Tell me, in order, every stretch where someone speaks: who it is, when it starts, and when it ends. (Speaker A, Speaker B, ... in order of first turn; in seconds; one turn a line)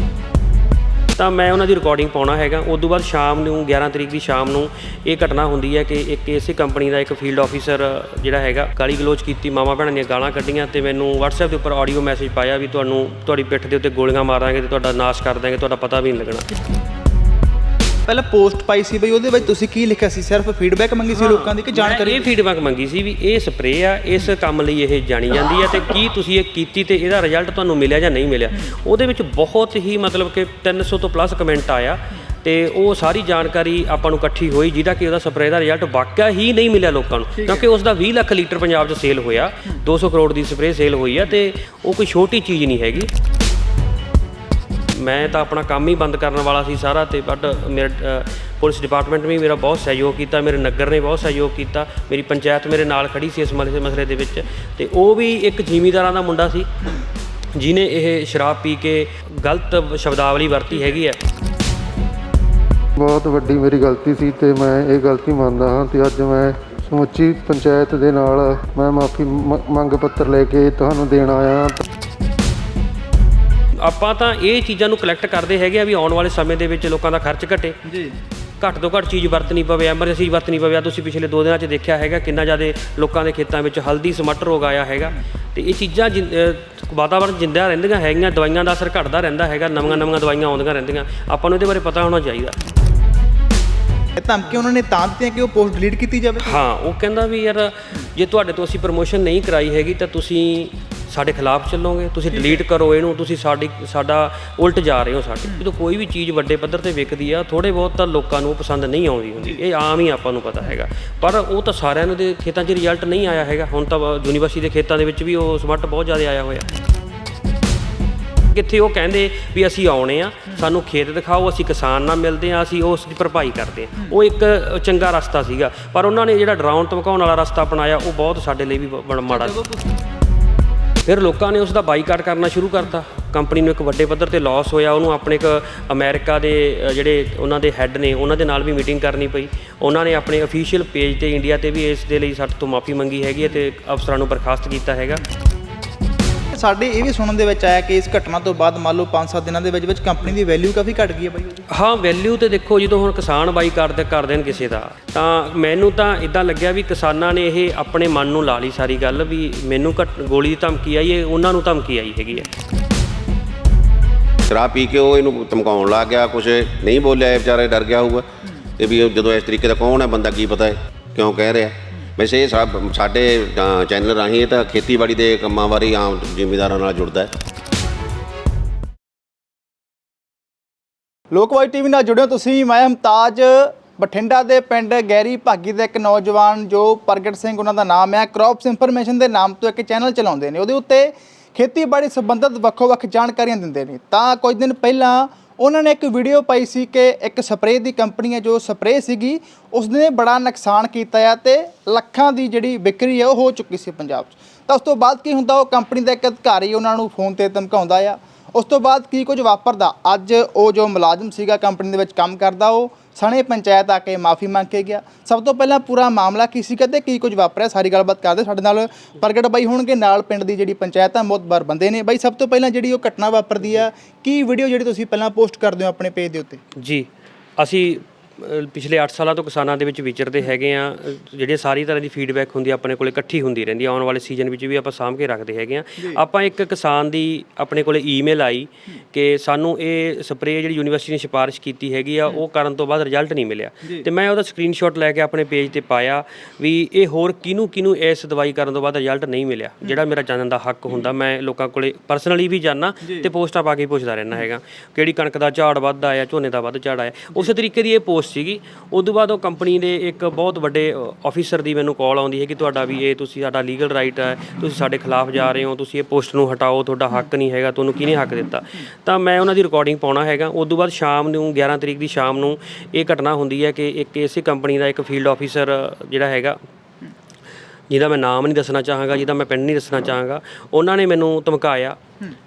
Speaker A: 1.2-16.5
Speaker B: 18.1-22.2
Speaker A: 21.1-43.1
Speaker B: 37.4-37.6
Speaker A: 44.9-56.7
Speaker A: 57.5-61.2
Speaker C: 63.0-71.8
Speaker A: 73.8-77.8
Speaker B: 77.8-78.1
Speaker A: 78.6-92.6
Speaker B: 94.2-96.6
Speaker A: 96.4-116.7
Speaker B: 102.3-102.6
Speaker A: 118.5-129.6
Speaker B: 129.3-129.9
Speaker A: 131.0-145.2
Speaker B: 146.5-151.6
Speaker A: 151.7-162.5
Speaker D: 164.5-168.3
Speaker D: 168.8-177.3
Speaker B: 181.3-226.6
Speaker A: 226.8-276.6
Speaker B: 253.0-253.3
Speaker A: 277.9-282.0